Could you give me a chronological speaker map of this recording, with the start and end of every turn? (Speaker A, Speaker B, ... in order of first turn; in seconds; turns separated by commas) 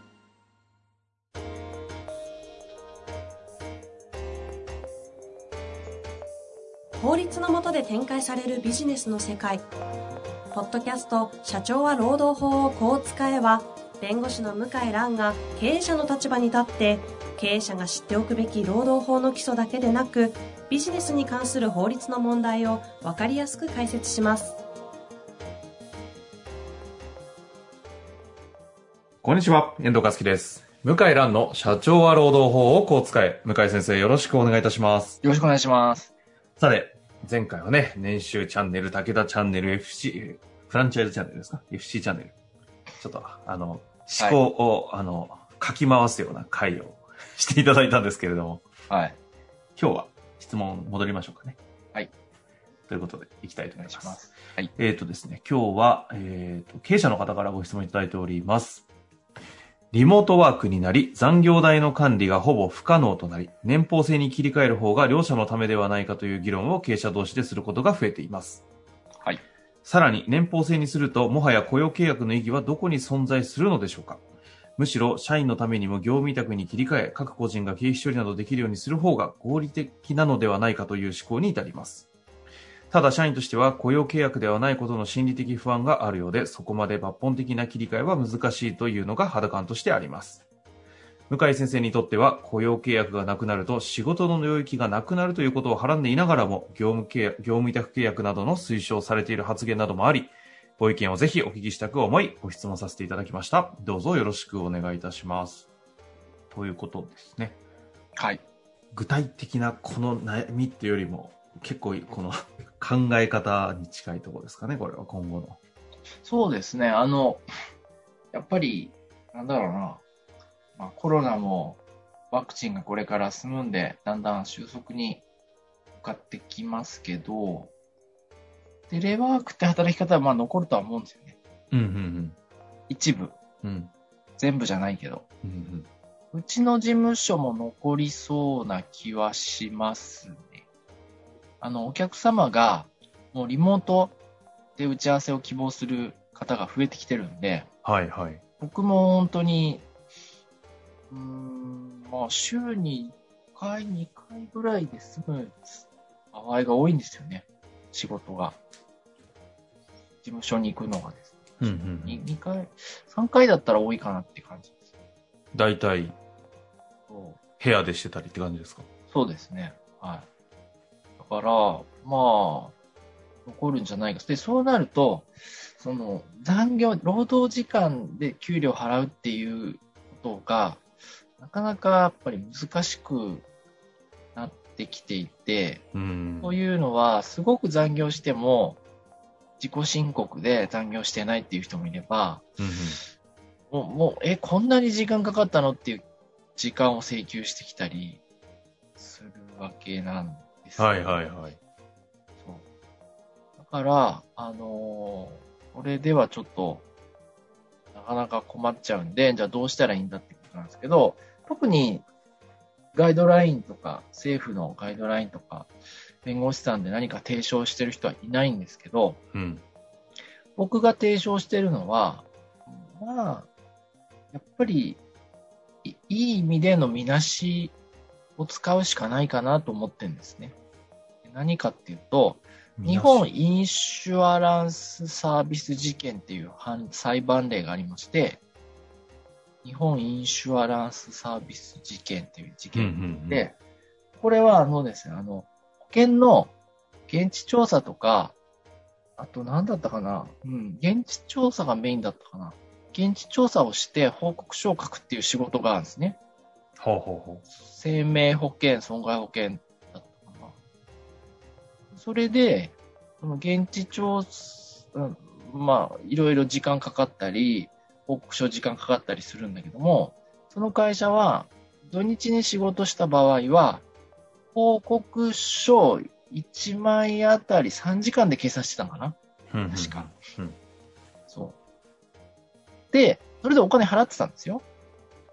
Speaker A: 7.0-9.6, Speaker A: 10.5-24.6, Speaker B: 29.2-35.2, Speaker C: 35.2-36.1, Speaker B: 36.6-42.3, Speaker B: 43.0-48.6, Speaker C: 48.9-49.2, Speaker B: 49.8-51.6, Speaker B: 52.9-54.2, Speaker C: 53.8-54.7, Speaker B: 54.8-58.9, Speaker B: 59.9-68.6, Speaker B: 69.8-74.2, Speaker B: 74.8-82.1, Speaker B: 82.9-90.4, Speaker B: 91.3-105.7, Speaker B: 106.5-107.6, Speaker B: 108.9-115.6, Speaker C: 116.2-117.4, Speaker C: 118.3-120.0, Speaker C: 120.8-125.2, Speaker C: 126.0-127.7, Speaker C: 128.9-131.4, Speaker B: 131.7-132.3, Speaker C: 132.9-133.4, Speaker B: 133.6-133.9, Speaker C: 134.4-135.2, Speaker B: 135.4-135.9, Speaker C: 136.3-140.6, Speaker C: 141.6-144.2, Speaker C: 144.8-147.7, Speaker B: 147.8-148.4, Speaker C: 148.6-149.8, Speaker C: 151.1-158.6, Speaker C: 160.2-164.8, Speaker B: 161.6-162.2, Speaker B: 165.5-166.2, Speaker C: 167.1-167.4, Speaker B: 167.6-168.9, Speaker C: 169.1-170.3, Speaker C: 171.2-172.7, Speaker C: 173.4-180.8, Speaker C: 181.4-183.4, Speaker C: 184.3-185.8, Speaker B: 185.9-186.6, Speaker C: 186.4-188.8, Speaker C: 189.6-192.5, Speaker B: 192.6-193.0, Speaker C: 193.7-196.0, Speaker C: 196.6-198.2, Speaker C: 199.0-201.0, Speaker B: 200.8-201.6, Speaker C: 202.4-202.6, Speaker C: 203.6-206.8, Speaker C: 207.9-212.0, Speaker C: 212.9-215.7, Speaker C: 216.2-219.2, Speaker B: 219.3-219.6, Speaker C: 220.6-223.5, Speaker C: 224.3-225.0, Speaker C: 225.8-227.8, Speaker C: 228.4-230.6, Speaker C: 231.2-238.4, Speaker B: 232.8-233.2, Speaker C: 239.6-243.5, Speaker B: 242.7-243.4, Speaker C: 244.2-246.5, Speaker C: 247.1-248.3, Speaker C: 249.2-256.2, Speaker B: 256.8-257.4, Speaker C: 257.5-260.5, Speaker C: 261.9-273.8, Speaker C: 274.5-279.2, Speaker B: 279.5-280.6, Speaker C: 279.7-280.1, Speaker C: 281.3-281.6, Speaker C: 282.9-284.6